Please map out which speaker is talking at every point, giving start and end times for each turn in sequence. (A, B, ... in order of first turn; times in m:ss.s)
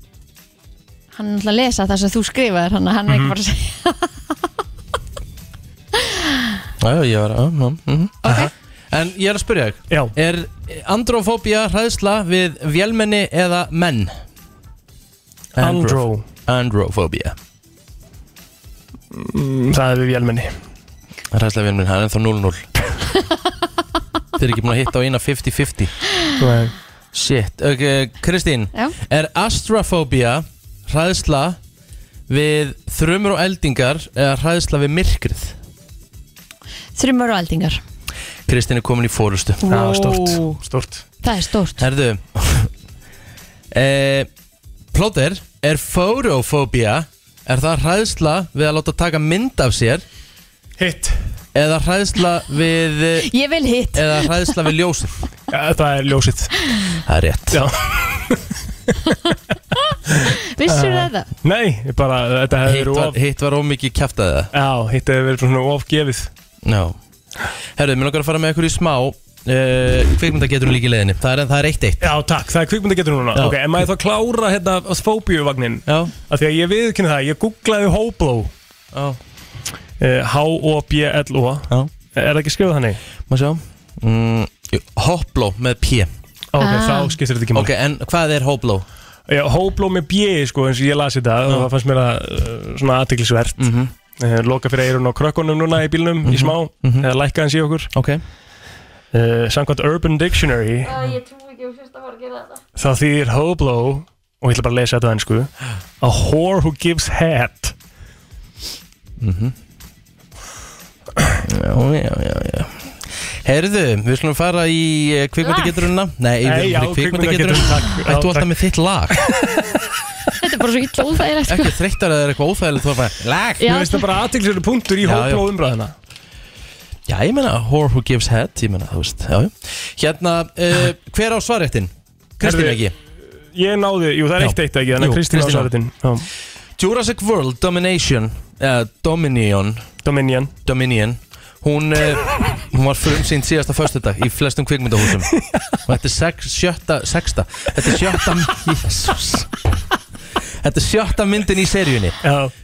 0:01.1-0:04.4 A
0:06.0-0:06.5 A
0:06.8-0:08.2 B
0:08.2-0:08.5 A
0:08.9-0:14.2 B
0:15.6-0:16.3 C
0:15.6-0:17.4 B
0:19.1-0:20.5 C
0:21.3-0:22.7 B
0:24.4-0:26.0 B
0:26.4-0:26.7 C
0:27.1-0:31.6 B
0:32.3-0:35.6 B
0:37.0-0:37.8 A
0:38.5-0:39.8 B
0:39.7-0:41.0 C
0:39.7-0:40.6 A
0:41.2-0:41.9 A
0:41.8-0:42.7 B
0:43.7-0:44.3 B
0:44.9-0:50.0 B
0:50.8-0:51.2 C
0:51.5-0:53.3 B
0:53.2-0:54.6 A
0:53.9-0:55.2 B
0:55.5-0:56.7 C
0:57.1-0:57.7 B
0:57.5-0:59.4 C
0:59.8-1:01.3 A
1:00.1-1:03.2 C
1:02.6-1:04.5 B
1:04.5-1:06.3 C
1:06.6-1:07.0 B
1:07.8-1:12.1 B
1:12.0-1:18.5 C
1:13.4-1:13.8 B
1:15.9-1:16.1 B
1:18.9-1:19.2 B
1:20.0-1:23.0 C
1:23.3-1:26.1 B
1:26.5-1:27.7 C
1:26.6-1:27.2 A
1:27.5-1:28.9 B
1:29.3-1:37.9 C
1:33.6-1:33.9 B
1:36.3-1:37.1 B
1:37.9-1:38.2 B
1:39.1-1:41.0 C
1:40.8-1:42.6 A
1:42.8-1:47.7 C
1:49.2-1:49.6 B
1:51.4-1:59.2 B
1:56.4-1:58.5 C
1:59.1-1:59.7 C
2:00.3-2:01.8 A
2:01.5-2:03.8 B
2:03.6-2:04.0 A
2:03.6-2:05.9 C
2:05.0-2:05.4 B
2:07.1-2:13.0 B
2:12.4-2:12.9 C
2:13.5-2:16.3 C
2:14.4-2:15.7 B
2:16.8-2:19.9 B
2:20.0-2:20.5 C
2:20.7-2:29.5 B
2:30.6-2:32.2 B
2:32.2-2:32.5 C